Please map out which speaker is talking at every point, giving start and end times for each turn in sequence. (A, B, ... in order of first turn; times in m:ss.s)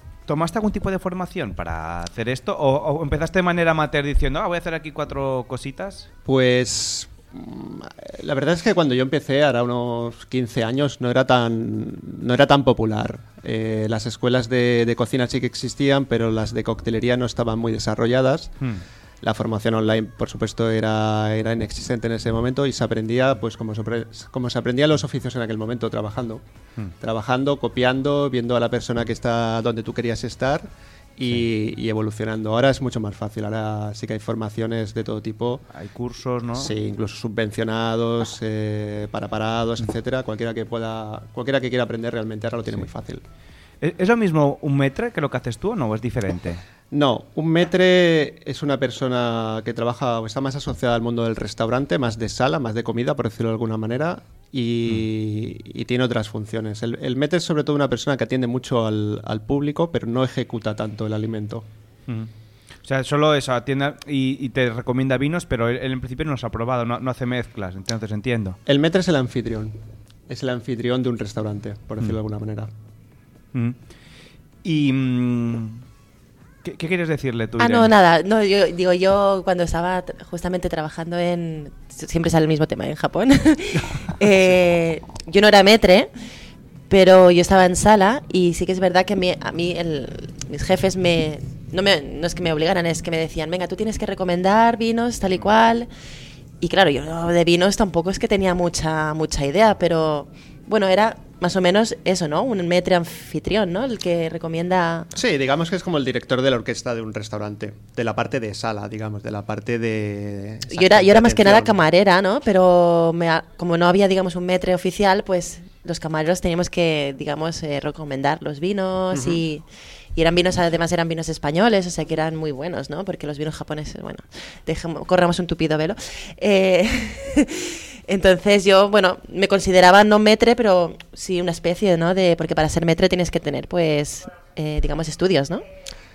0:00.3-0:06.1 A
0:06.2-0:18.6 B
0:19.2-0:26.4 B
0:27.0-0:35.6 B
0:35.7-0:36.7 A
0:36.5-0:43.2 B
0:43.8-0:46.6 A
0:46.9-1:01.6 B
1:02.8-1:08.6 A
1:08.6-1:09.8 B
1:10.3-1:12.7 B
1:14.6-1:15.8 A
1:16.6-1:17.9 A
1:17.6-1:26.1 C
1:26.9-1:35.9 C
1:36.6-1:45.1 C
1:45.1-1:51.8 B
1:50.7-1:59.6 C
1:59.1-1:59.4 B
2:00.1-2:15.6 C